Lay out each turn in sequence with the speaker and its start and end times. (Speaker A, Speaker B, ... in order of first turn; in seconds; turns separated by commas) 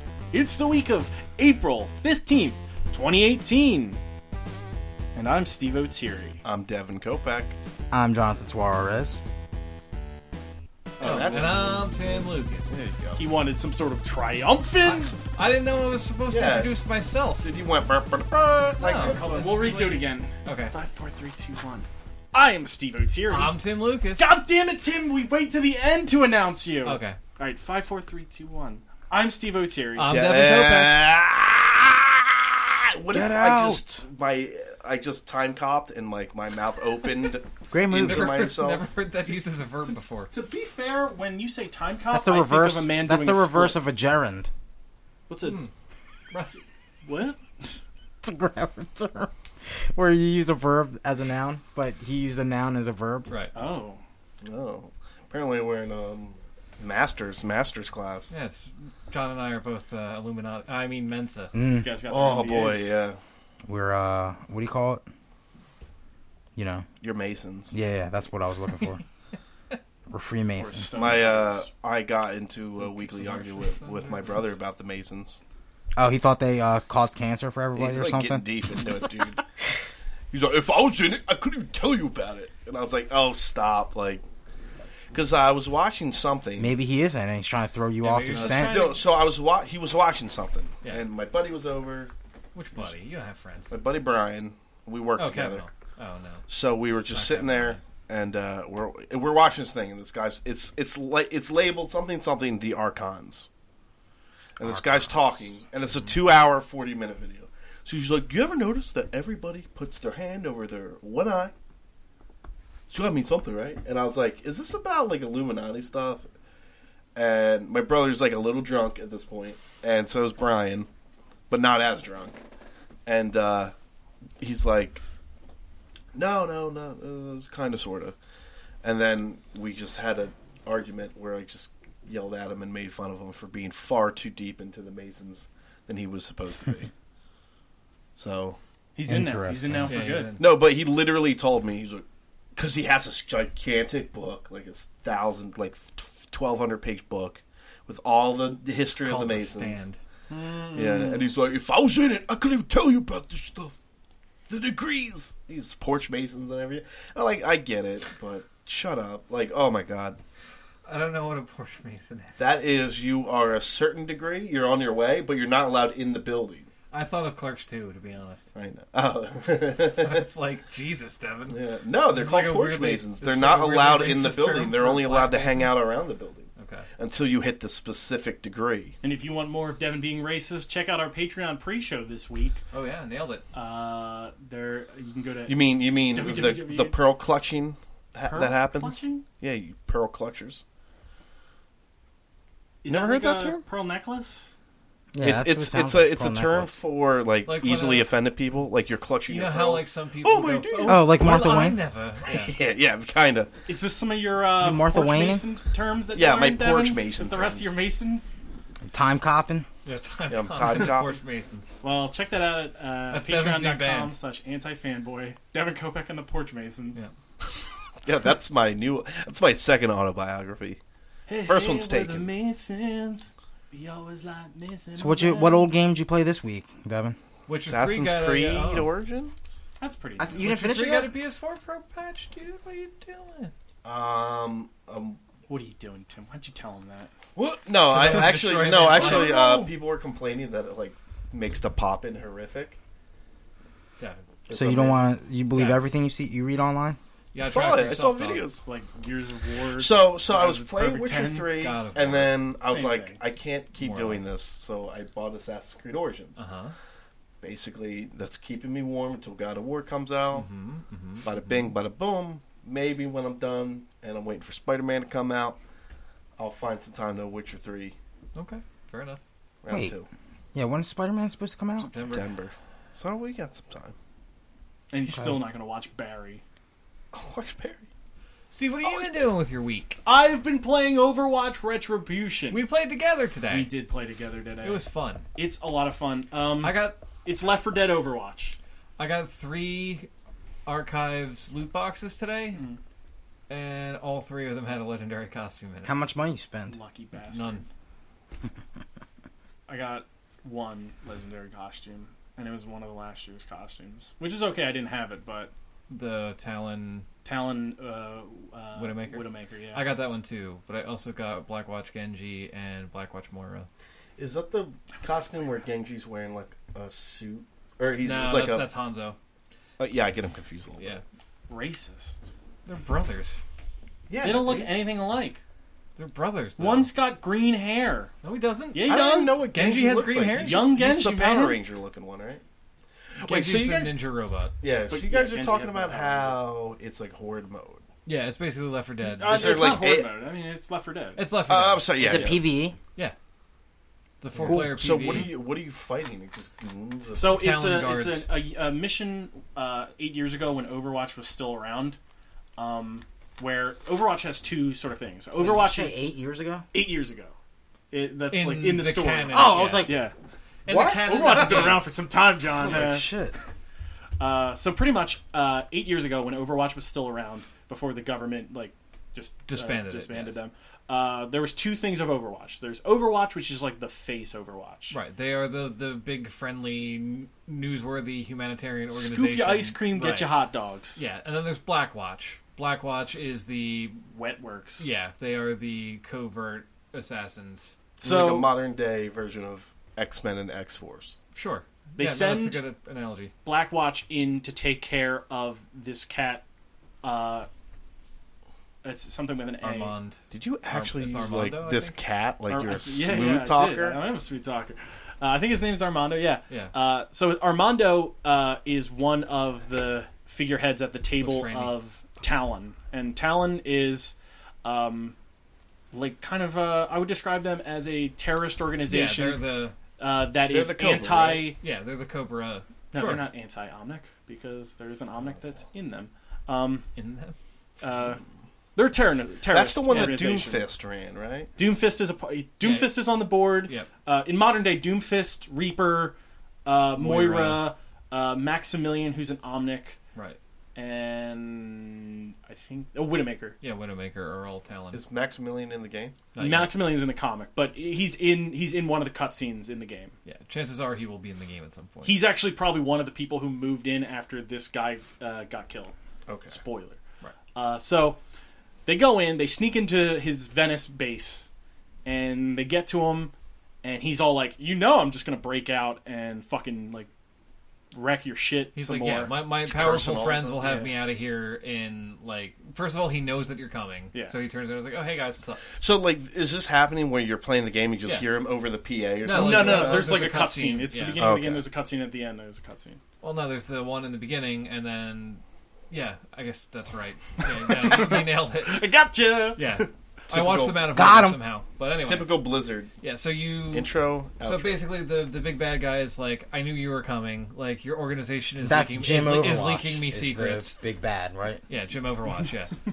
Speaker A: 0.3-4.0, Speaker A: 5.1-6.4, Speaker B: 6.4-7.5, Speaker C: 7.9-9.2, Speaker A: 11.0-11.7, Speaker B: 11.0-13.2, Speaker D: 11.0-12.8, Speaker A: 13.2-15.1, Speaker D: 14.8-17.5, Speaker B: 16.3-16.7, Speaker B: 17.4-19.4, Speaker D: 18.8-20.7, Speaker A: 19.0-23.6, Speaker D: 23.3-24.3, Speaker A: 24.1-30.2, Speaker D: 26.8-27.2, Speaker D: 29.9-31.1, Speaker B: 30.0-38.9, Speaker C: 33.1-33.8, Speaker C: 37.7-38.4, Speaker D: 37.9-40.3, Speaker A: 39.8-43.8, Speaker C: 42.1-44.5, Speaker A: 45.3-45.6, Speaker D: 45.4-45.7, Speaker D: 46.3-46.6, Speaker A: 46.5-47.8, Speaker C: 48.2-49.3, Speaker C: 49.9-53.3, Speaker D: 53.3-53.5, Speaker A: 53.5-54.0, Speaker B: 54.4-58.3, Speaker D: 58.3-61.5, Speaker C: 61.5-61.9, Speaker A: 61.6-63.0, Speaker B: 62.1-63.2, Speaker C: 63.6-65.0, Speaker C: 66.5-66.8, Speaker B: 67.0-67.8, Speaker C: 67.7-69.0, Speaker C: 70.1-71.2, Speaker A: 70.5-71.7, Speaker B: 70.9-75.4, Speaker D: 72.8-74.5, Speaker C: 76.0-79.1, Speaker B: 77.8-79.4, Speaker B: 80.3-84.2, Speaker B: 85.1-86.7, Speaker C: 86.6-88.8, Speaker D: 88.0-89.0, Speaker B: 88.3-92.1, Speaker D: 92.5-93.7, Speaker B: 93.7-95.6, Speaker D: 95.2-96.4, Speaker B: 96.5-103.5, Speaker D: 97.1-97.8, Speaker B: 104.6-111.5, Speaker C: 104.6-105.6, Speaker B: 112.9-116.3, Speaker B: 117.1-120.9, Speaker B: 121.5-122.4, Speaker B: 123.0-123.7, Speaker B: 124.4-125.0, Speaker B: 126.1-128.2, Speaker B: 128.8-136.9, Speaker B: 138.2-138.6, Speaker A: 138.9-140.3, Speaker C: 139.1-139.9, Speaker D: 139.8-140.6, Speaker B: 140.4-149.8, Speaker D: 149.0-150.0, Speaker A: 150.3-151.3, Speaker B: 150.7-153.8, Speaker B: 154.5-160.2, Speaker D: 160.8-162.5, Speaker B: 162.4-166.7, Speaker D: 166.9-168.5, Speaker B: 168.5-170.2, Speaker D: 170.0-175.8, Speaker B: 171.5-178.9, Speaker D: 176.6-176.9, Speaker A: 179.0-182.6, Speaker D: 182.7-183.4, Speaker A: 183.5-187.0, Speaker B: 185.4-190.6, Speaker A: 188.2-189.2, Speaker A: 192.8-194.6, Speaker B: 192.8-193.6, Speaker C: 195.1-196.7, Speaker B: 195.2-201.6, Speaker D: 197.4-198.1, Speaker D: 199.3-202.5, Speaker C: 200.8-201.8, Speaker B: 202.2-203.5, Speaker A: 203.7-208.3, Speaker C: 204.6-205.4, Speaker B: 206.1-207.8, Speaker C: 208.8-209.7, Speaker D: 209.8-211.8, Speaker B: 210.3-211.1, Speaker A: 211.8-217.0, Speaker D: 213.1-214.2, Speaker B: 218.0-220.8, Speaker A: 221.3-225.7, Speaker B: 221.4-222.3, Speaker C: 225.0-227.2, Speaker D: 227.5-228.9, Speaker B: 227.6-229.3, Speaker A: 229.8-230.4, Speaker C: 230.2-231.1, Speaker D: 230.4-233.5, Speaker B: 233.8-235.2, Speaker A: 235.5-237.1, Speaker B: 237.3-242.8, Speaker D: 237.8-239.7, Speaker A: 238.9-239.3, Speaker D: 244.0-244.4, Speaker B: 244.5-245.0, Speaker C: 244.5-247.0, Speaker D: 245.5-245.8, Speaker D: 247.3-248.5, Speaker B: 247.4-248.6, Speaker A: 248.6-251.5, Speaker B: 249.8-256.4, Speaker D: 251.6-252.3, Speaker A: 252.6-253.2, Speaker D: 253.8-254.2, Speaker D: 256.4-256.7, Speaker B: 257.4-260.5, Speaker D: 260.3-261.7, Speaker B: 261.2-265.6, Speaker B: 266.4-267.9, Speaker D: 268.3-269.2, Speaker B: 269.6-270.1, Speaker C: 269.7-269.9, Speaker C: 270.5-271.9, Speaker D: 271.8-272.3, Speaker B: 272.0-273.9, Speaker A: 274.9-276.4, Speaker B: 277.1-277.8, Speaker D: 278.5-280.0, Speaker A: 280.0-282.6, Speaker D: 282.5-283.7, Speaker A: 283.5-284.8, Speaker D: 284.6-285.2, Speaker A: 285.3-288.6, Speaker D: 286.6-287.0, Speaker D: 289.0-290.1, Speaker D: 290.6-292.6, Speaker A: 292.5-292.8, Speaker D: 293.5-295.9, Speaker C: 295.8-296.8, Speaker A: 296.7-297.6, Speaker D: 297.3-297.6, Speaker A: 299.7-305.5, Speaker D: 305.9-307.1, Speaker A: 307.2-309.9, Speaker D: 308.8-313.7, Speaker B: 314.2-318.7, Speaker D: 318.0-319.2, Speaker B: 319.8-321.0, Speaker D: 320.8-321.0, Speaker A: 321.5-322.2, Speaker D: 322.6-323.4, Speaker B: 324.1-324.7, Speaker A: 324.2-325.4, Speaker D: 325.9-326.9, Speaker A: 326.6-328.1, Speaker D: 328.2-330.7, Speaker A: 328.7-329.4, Speaker B: 328.8-332.4, Speaker A: 330.4-331.6, Speaker B: 333.2-334.0, Speaker D: 333.2-334.5, Speaker B: 334.6-337.8, Speaker A: 334.9-336.4, Speaker D: 338.1-339.8, Speaker A: 339.0-341.2, Speaker B: 339.2-340.1, Speaker D: 341.2-342.3, Speaker B: 341.5-342.5, Speaker C: 342.0-342.8, Speaker D: 344.2-345.4, Speaker C: 344.4-344.8, Speaker B: 344.4-347.4, Speaker A: 347.1-352.0, Speaker D: 347.2-348.3, Speaker A: 352.6-356.0, Speaker C: 355.4-356.6, Speaker A: 356.7-357.3, Speaker A: 357.9-360.1, Speaker D: 358.3-360.0, Speaker C: 359.3-360.0, Speaker D: 360.6-361.9, Speaker B: 360.7-361.7, Speaker A: 361.0-363.1, Speaker C: 362.6-363.4, Speaker A: 364.2-374.9, Speaker D: 369.4-370.4, Speaker D: 374.9-380.3, Speaker A: 378.9-381.0, Speaker D: 380.9-384.0, Speaker A: 384.1-384.9, Speaker D: 384.8-387.8, Speaker A: 388.0-388.5, Speaker B: 388.0-391.1, Speaker D: 391.3-393.3, Speaker A: 391.9-392.6, Speaker A: 393.4-396.4, Speaker A: 397.0-397.5, Speaker A: 398.8-399.9, Speaker D: 399.6-402.0, Speaker B: 400.3-404.0, Speaker A: 402.5-415.1, Speaker D: 406.5-406.7, Speaker D: 411.2-411.8, Speaker A: 415.9-419.4, Speaker D: 418.9-419.8, Speaker A: 420.0-421.6, Speaker B: 420.5-421.5, Speaker D: 421.6-423.3, Speaker A: 422.9-426.9, Speaker D: 426.9-427.3, Speaker A: 427.8-428.2, Speaker A: 428.8-430.6, Speaker B: 429.5-431.5, Speaker A: 431.6-440.0, Speaker D: 432.6-433.1, Speaker D: 433.6-433.9, Speaker D: 437.0-437.7, Speaker A: 440.8-443.6, Speaker D: 443.6-445.0, Speaker B: 444.9-446.2, Speaker D: 446.3-446.9, Speaker A: 446.4-450.1, Speaker D: 450.2-452.2, Speaker A: 452.0-455.9, Speaker B: 456.3-456.6, Speaker A: 456.5-457.0, Speaker A: 457.5-458.2, Speaker A: 458.9-461.5, Speaker A: 462.0-467.1, Speaker A: 467.9-469.4, Speaker D: 468.7-475.7, Speaker B: 469.6-470.7, Speaker A: 470.6-470.9, Speaker B: 475.8-480.2, Speaker D: 478.0-478.3, Speaker D: 479.2-481.2, Speaker A: 479.2-483.0, Speaker B: 481.1-481.7, Speaker D: 483.2-488.9, Speaker A: 487.5-489.9, Speaker D: 489.6-492.4, Speaker B: 490.3-490.9, Speaker C: 490.9-491.4, Speaker B: 492.0-492.9, Speaker D: 493.0-500.7, Speaker B: 493.7-494.9, Speaker C: 498.6-501.6, Speaker D: 501.7-502.8